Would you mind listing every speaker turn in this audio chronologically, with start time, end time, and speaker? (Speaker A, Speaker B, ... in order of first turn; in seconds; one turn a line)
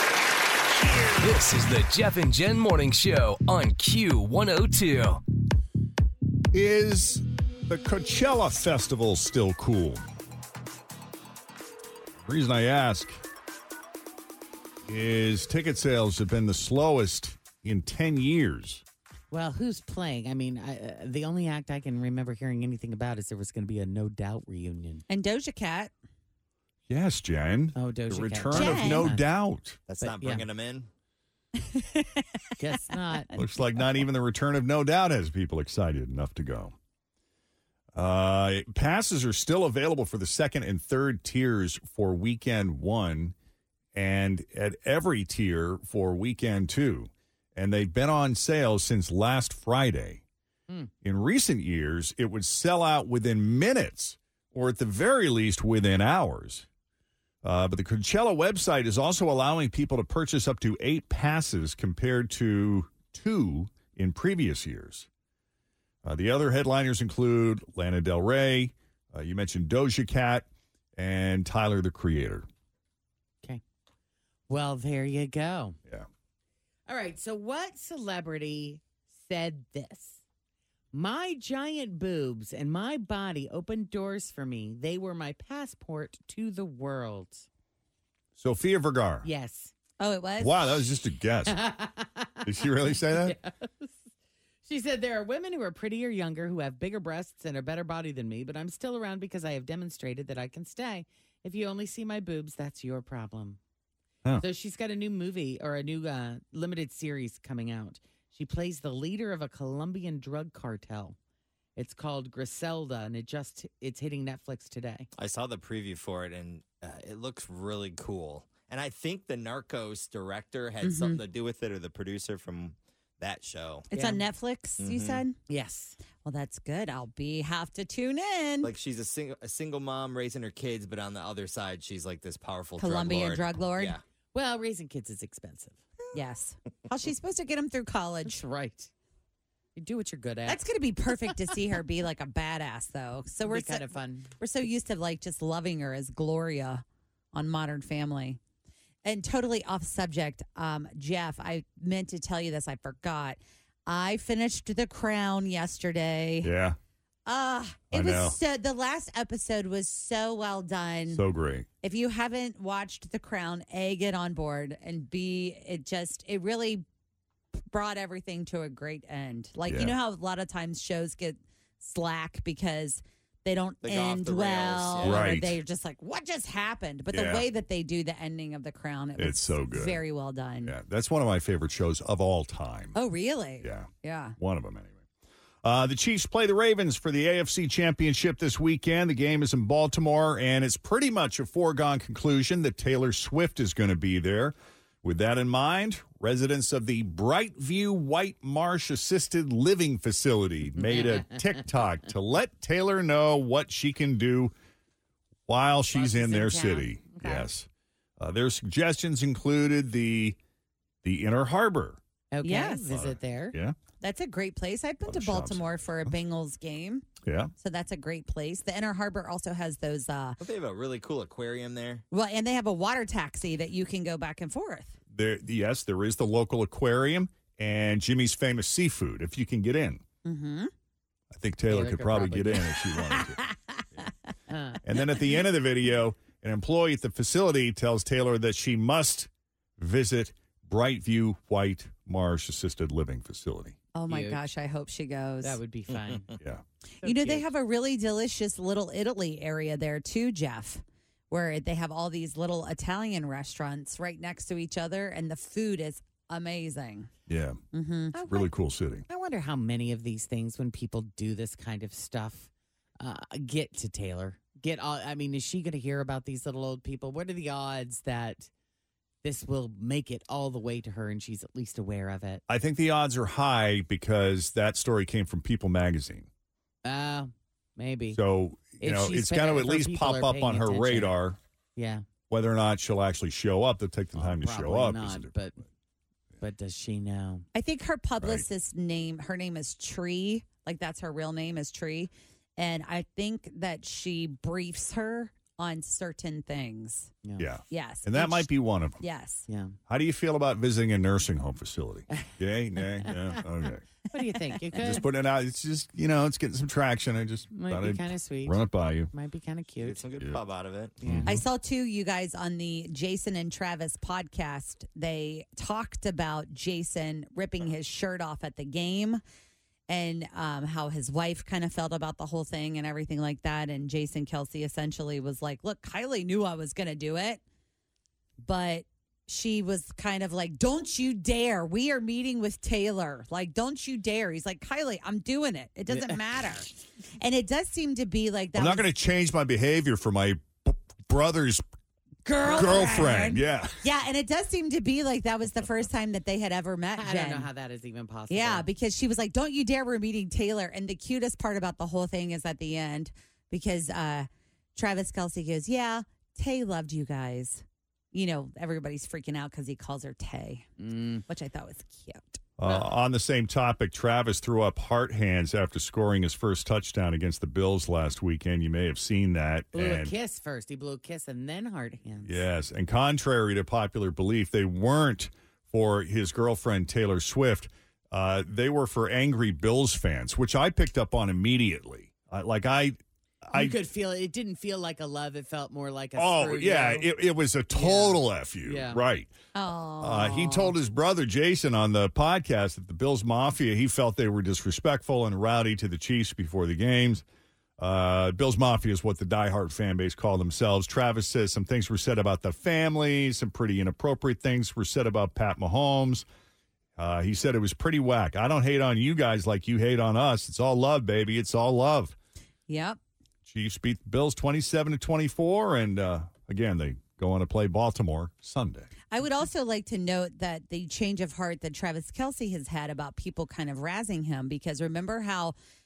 Speaker A: 1.2-5.2
Speaker B: 6.5-10.0
Speaker B: 12.2-13.2
Speaker B: 14.8-18.8
Speaker C: 19.3-25.0
Speaker D: 25.1-25.9
Speaker B: 26.9-29.8
Speaker C: 27.8-29.2
Speaker D: 28.5-29.1
Speaker E: 29.9-30.9
Speaker C: 30.0-30.4
Speaker D: 31.6-32.2
Speaker C: 32.6-33.3
Speaker B: 33.3-36.7
Speaker B: 37.9-43.3
Speaker B: 43.9-50.2
Speaker B: 51.0-56.7
Speaker B: 57.4-65.1
Speaker B: 66.0-72.5
Speaker C: 74.5-75.8
Speaker C: 76.9-80.2
Speaker C: 80.9-87.5
Speaker B: 88.4-89.3
Speaker C: 89.2-89.7
Speaker D: 90.0-90.6
Speaker B: 90.4-91.6
Speaker C: 91.5-92.5
Speaker B: 92.4-93.3
Speaker C: 93.1-94.0
Speaker C: 94.6-103.6
Speaker C: 104.4-111.2
Speaker C: 111.8-115.1
Speaker E: 115.1-123.9
Speaker D: 120.8-121.2
Speaker D: 123.9-125.4
Speaker C: 123.9-124.2
Speaker E: 124.8-125.2
Speaker C: 125.5-126.0
Speaker D: 126.2-128.7
Speaker E: 128.6-134.0
Speaker D: 132.8-133.9
Speaker C: 134.3-135.8
Speaker D: 136.1-138.4
Speaker C: 138.2-138.9
Speaker C: 139.7-140.6
Speaker D: 140.5-148.4
Speaker C: 143.4-144.3
Speaker D: 149.0-156.5
Speaker B: 156.4-156.8
Speaker D: 157.2-161.2
Speaker B: 157.9-158.4
Speaker B: 161.1-161.7
Speaker D: 161.8-166.8
Speaker D: 167.7-180.7
Speaker B: 169.7-169.9
Speaker E: 173.8-175.3
Speaker B: 175.0-175.6
Speaker B: 177.1-177.5
Speaker B: 179.2-180.0
Speaker B: 180.6-183.0
Speaker D: 182.9-184.4
Speaker B: 183.6-183.9
Speaker B: 184.4-185.0
Speaker B: 185.6-204.5
Speaker C: 200.8-201.4
Speaker B: 205.5-207.7
Speaker C: 205.9-207.5
Speaker B: 208.2-210.4
Speaker B: 211.0-212.0
Speaker C: 212.3-213.6
Speaker D: 212.4-212.8
Speaker B: 212.9-213.8
Speaker D: 214.0-217.1
Speaker B: 215.0-216.1
Speaker B: 217.2-217.5
Speaker D: 217.6-220.4
Speaker E: 220.4-222.0
Speaker D: 222.1-225.0
Speaker B: 225.1-230.0
Speaker D: 230.2-230.7
Speaker B: 231.3-233.4
Speaker C: 231.7-232.7
Speaker C: 234.5-234.8
Speaker B: 234.8-243.8
Speaker D: 243.9-245.6
Speaker C: 244.1-244.4
Speaker C: 245.4-246.3
Speaker E: 245.9-246.2
Speaker C: 247.0-247.5
Speaker D: 247.0-257.1
Speaker B: 257.3-257.6
Speaker D: 257.7-258.2
Speaker C: 258.1-258.5
Speaker B: 258.3-259.0
Speaker C: 259.1-262.5
Speaker C: 263.0-268.5
Speaker C: 269.2-272.4
Speaker B: 272.5-276.3
Speaker C: 276.8-278.2
Speaker B: 278.1-281.4
Speaker C: 278.8-281.1
Speaker C: 281.8-282.0
Speaker B: 282.3-285.3
Speaker C: 284.1-285.6
Speaker C: 286.4-287.4
Speaker D: 287.5-297.1
Speaker B: 297.4-299.0
Speaker D: 297.7-299.5
Speaker C: 299.5-299.8
Speaker B: 299.9-303.8
Speaker C: 303.0-303.4
Speaker C: 304.1-305.0
Speaker B: 304.8-309.1
Speaker C: 307.5-310.0
Speaker E: 309.8-311.0
Speaker B: 311.0-311.4
Speaker C: 311.0-311.4
Speaker D: 311.2-319.2
Speaker D: 319.9-327.4
Speaker D: 328.4-336.7
Speaker C: 335.9-336.2
Speaker D: 337.2-338.9
Speaker B: 338.5-341.6
Speaker D: 342.2-347.5
Speaker C: 342.4-343.1
Speaker B: 342.4-343.8
Speaker C: 347.0-348.6
Speaker D: 348.3-360.7
Speaker C: 360.8-361.2
Speaker D: 361.3-362.4
Speaker B: 362.6-370.1
Speaker C: 369.7-372.4
Speaker B: 372.2-383.8
Speaker C: 383.5-387.1
Speaker B: 386.1-389.3
Speaker C: 387.7-389.0
Speaker D: 389.5-390.8
Speaker B: 390.0-397.2
Speaker B: 397.8-406.2
Speaker B: 407.0-412.1
Speaker D: 412.7-413.0
Speaker B: 413.4-418.9
Speaker D: 419.1-425.5